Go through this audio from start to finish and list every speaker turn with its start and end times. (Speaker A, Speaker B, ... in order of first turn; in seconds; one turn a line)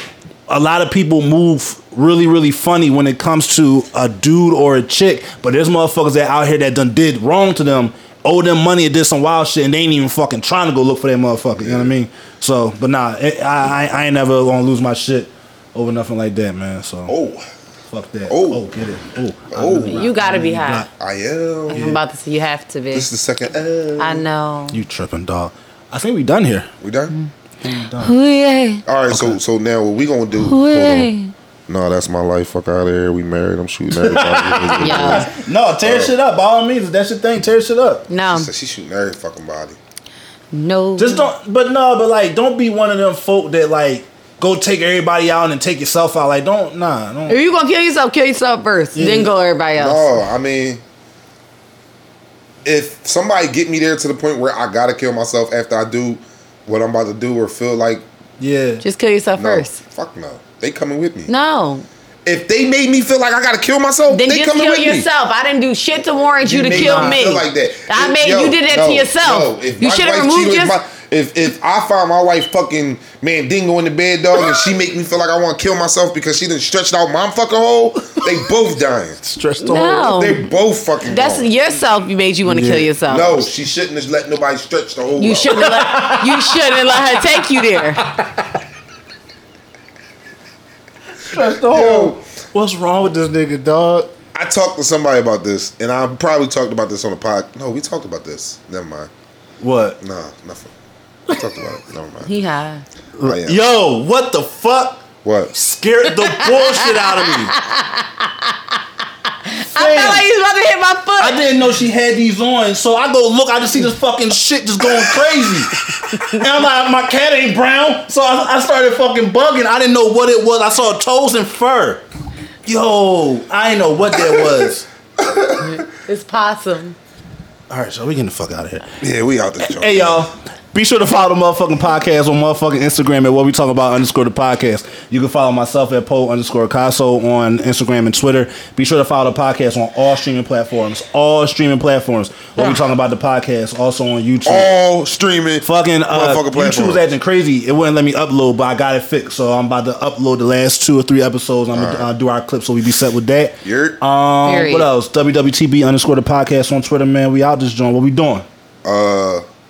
Speaker A: 0.5-17.1
Speaker B: 11.6-11.9
Speaker B: 17.1-17.4
Speaker A: 17.9-20.9
Speaker B: 18.3-18.6
Speaker B: 19.5-20.1
Speaker C: 19.9-20.9
Speaker B: 21.0-21.9
Speaker C: 21.7-23.1
Speaker A: 21.7-22.0
Speaker B: 22.9-24.2
Speaker C: 24.0-24.8
Speaker A: 24.7-26.7
Speaker B: 26.8-27.1
Speaker A: 27.6-28.1
Speaker C: 28.0-28.8
Speaker B: 28.9-31.1
Speaker A: 29.1-29.4
Speaker C: 30.4-31.3
Speaker B: 31.7-35.3
Speaker A: 33.9-38.1
Speaker C: 34.8-35.3
Speaker B: 35.8-36.1
Speaker C: 38.1-38.5
Speaker B: 38.2-39.8
Speaker C: 40.5-41.3
Speaker A: 41.0-47.4
Speaker C: 47.3-50.2
Speaker A: 48.9-49.3
Speaker B: 49.8-50.8
Speaker B: 52.6-58.0
Speaker A: 58.4-58.8
Speaker C: 58.8-59.8
Speaker B: 59.4-61.3
Speaker C: 61.3-61.9
Speaker B: 62.2-65.1
Speaker C: 64.1-70.8
Speaker B: 66.4-79.2
Speaker A: 66.7-67.3
Speaker A: 79.2-80.1
Speaker C: 79.6-80.5
Speaker B: 80.0-81.5
Speaker C: 81.0-83.4
Speaker A: 82.5-82.9
Speaker B: 83.1-85.7
Speaker C: 85.2-88.0
Speaker A: 85.5-88.6
Speaker A: 91.2-94.1
Speaker B: 91.6-92.2
Speaker B: 94.3-99.1
Speaker A: 99.6-100.0
Speaker B: 100.0-100.7
Speaker B: 101.3-102.3
Speaker C: 102.2-102.8
Speaker A: 103.2-107.6
Speaker B: 103.2-103.7
Speaker B: 105.2-105.5
Speaker C: 106.1-111.4
Speaker A: 109.7-110.2
Speaker A: 111.2-122.0
Speaker C: 116.1-116.4
Speaker A: 122.7-124.9
Speaker B: 124.3-124.5
Speaker B: 125.2-125.7
Speaker C: 125.6-127.0
Speaker A: 127.7-128.9
Speaker B: 129.0-130.3
Speaker A: 129.6-144.7
Speaker B: 144.4-147.0
Speaker A: 145.6-158.4
Speaker B: 151.7-152.1
Speaker B: 153.6-154.0
Speaker C: 154.4-154.9
Speaker B: 158.8-159.4